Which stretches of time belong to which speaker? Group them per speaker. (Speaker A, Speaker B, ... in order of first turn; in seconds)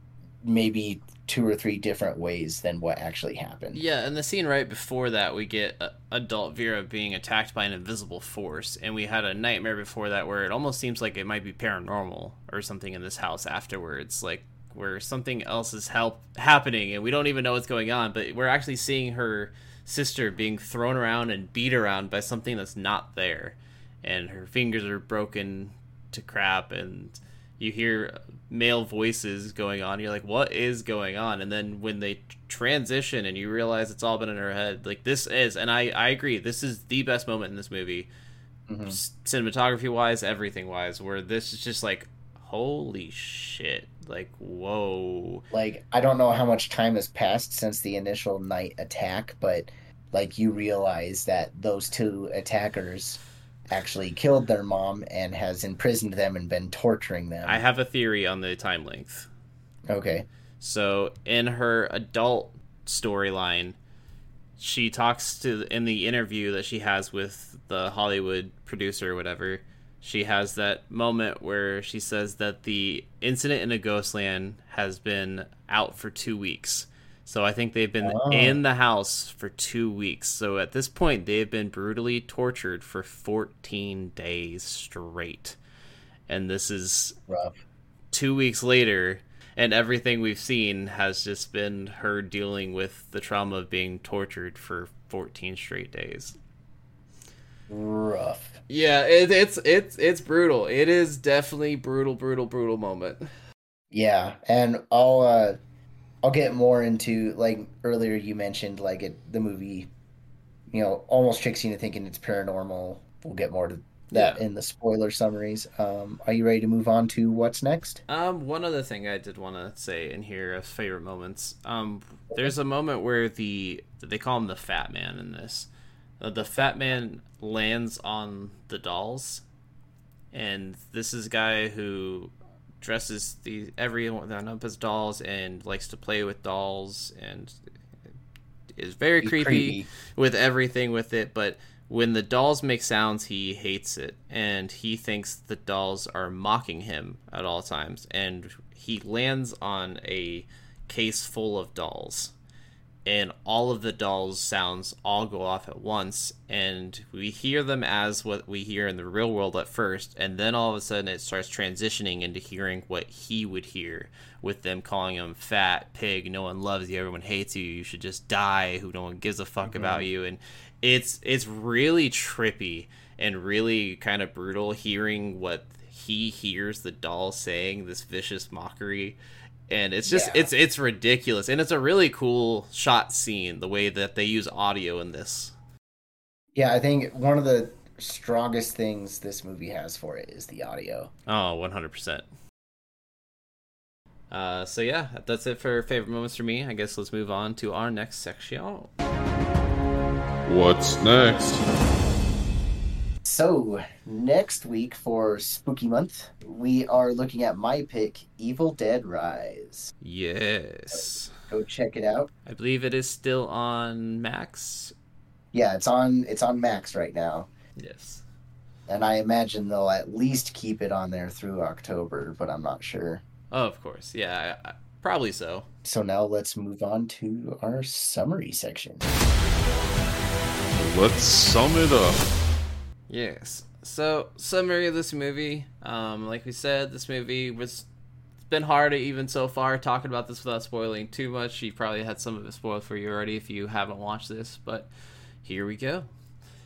Speaker A: 0.4-3.8, 38.7-39.0, 45.5-57.6, 59.9-60.3, 78.0-78.6, 87.3-87.5, 97.7-98.6, 103.9-105.6, 106.2-109.9, 110.7-118.0, 139.2-139.9, 169.6-170.1, 180.1-180.5, 186.5-191.1, 203.2-209.9, 210.9-212.3, 215.5-217.5, 218.9-223.2, 225.8-229.2
Speaker B: 3.7-38.1, 38.9-45.4, 57.4-59.3, 60.6-63.8, 64.6-85.6, 86.3-87.2, 88.1-96.3, 98.7-103.3, 114.1-114.4, 118.1-129.4, 130.3-137.6, 138.8-152.3, 153.0-179.2, 179.7-185.6, 191.3-192.3, 194.3-198.9, 210.0-211.3, 212.5-214.9, 217.8-218.2, 223.5-225.7, 233.1-237.9, 238.4-244.9, 245.4-246.1
Speaker C: 200.5-201.6, 230.7-232.3